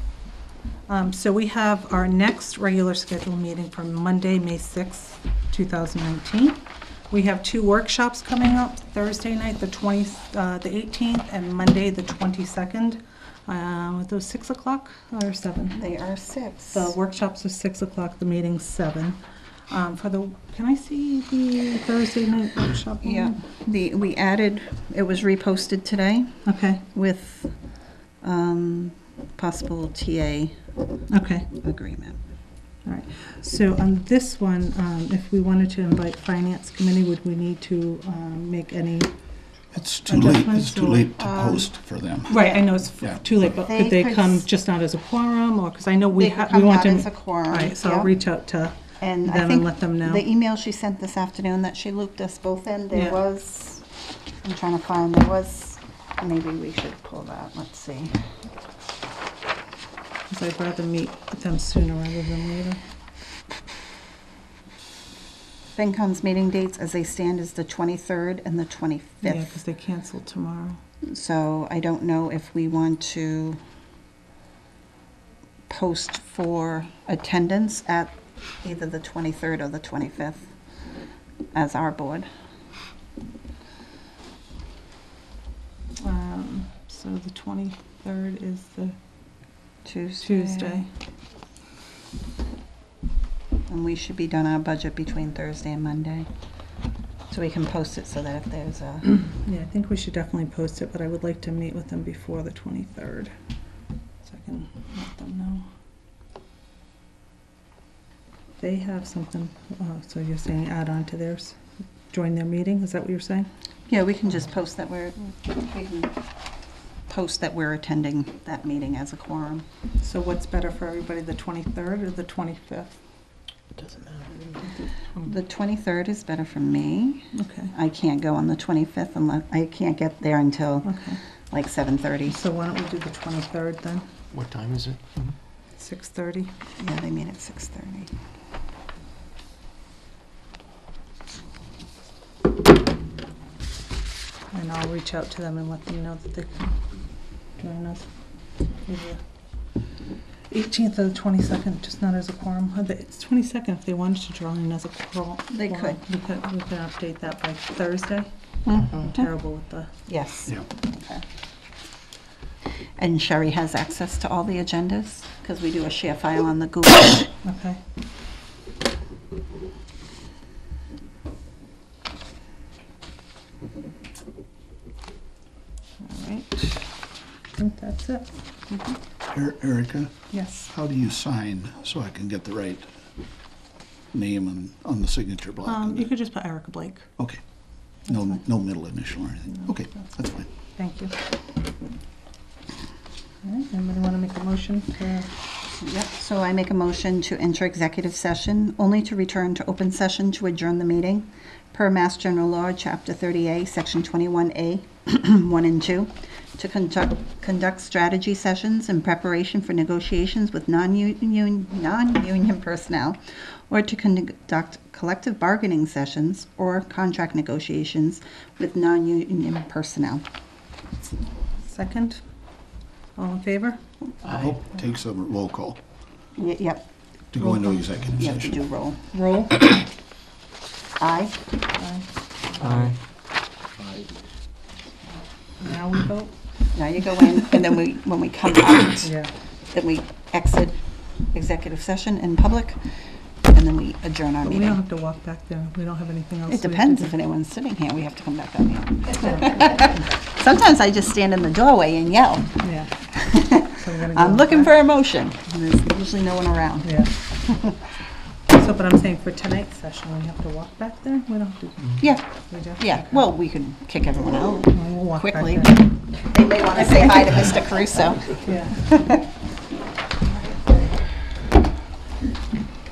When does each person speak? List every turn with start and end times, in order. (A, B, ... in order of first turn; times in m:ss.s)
0:00.9-0:15.8 A
0:15.7-0:16.9 B
0:16.7-0:23.4 A
0:23.0-0:27.6 B
0:26.4-0:26.8 A
0:28.2-0:30.6 B
0:31.1-0:31.5 A
0:31.6-0:32.2 B
0:32.8-0:39.1 A
0:39.7-0:42.5 C
0:40.0-0:41.1 A
0:41.2-0:41.7 B
0:42.3-0:50.2 A
0:42.3-0:42.6 B
0:43.0-0:43.4 C
0:43.6-0:44.4 B
0:46.1-0:48.1 B
0:49.0-0:53.8 B
0:52.9-0:53.2 A
0:54.4-0:58.2 B
1:00.3-1:02.8 A
1:05.7-1:09.5 B
1:09.2-1:10.8 A
1:11.0-1:13.6 B
1:15.7-1:20.5 B
1:21.5-1:22.3 B
1:26.0-1:29.0 A
1:29.8-1:30.8 B
1:30.2-1:30.9 A
1:33.7-1:36.3 B
1:37.3-1:39.0 B
1:39.0-1:43.3 A
1:44.2-1:45.7 A
1:48.6-1:51.6 A
1:52.1-1:53.5 A
1:53.9-1:56.1 B
1:57.1-1:59.6 B
2:00.0-2:03.0 A
2:03.8-2:04.6 D
2:04.6-2:04.9 A
2:05.2-2:10.9 B
2:07.3-2:07.7 A
2:10.8-2:11.2 A
2:11.5-2:12.4 B
2:12.3-2:14.1 A
2:14.3-2:15.3 D
2:15.8-2:16.5 A
2:16.8-2:18.1 B
2:24.5-2:26.8 A
2:27.6-2:28.1 A
2:28.8-2:29.2 A
2:30.5-2:38.3 A
2:35.5-2:36.0 B
2:38.6-2:39.2 B
2:38.8-2:39.9 A
2:40.1-2:41.2 B
2:43.0-2:47.3 B
2:47.4-2:47.8 A
2:56.0-2:56.9 A
2:57.5-2:58.3 A
2:59.3-3:00.1 C
3:00.3-3:00.7 A
3:00.7-3:02.9 C
3:04.1-3:06.1 C
3:05.6-3:07.1 A
3:08.0-3:10.5 C
3:09.6-3:10.1 A
3:10.7-3:11.1 A
3:13.4-3:15.3 A
3:15.8-3:40.2 B
3:41.6-3:42.2 A
3:43.2-3:43.8 A
3:44.2-3:44.5 D
3:44.3-3:45.8 C
3:46.4-3:46.8 B
3:47.3-3:48.5 C
3:48.1-3:49.0 B
3:49.1-3:49.7 A
3:51.0-3:51.3 B
3:51.7-3:52.7 A
3:52.6-3:52.9 D
3:55.6-3:56.3 A
3:56.7-3:59.1 B
3:59.0-3:59.3 A
3:59.7-4:00.8 B
4:01.3-4:02.8 B
4:03.5-4:04.8 B
4:04.4-4:07.1 A
4:06.5-4:12.6 B
4:12.6-4:12.9 A
4:13.2-4:17.8 B
4:13.6-4:14.8 A
4:16.8-4:17.1 A
4:18.5-4:23.2 A
4:22.8-4:29.1 B
4:24.7-4:25.8 A
4:26.8-4:27.3 A
4:28.3-4:28.9 A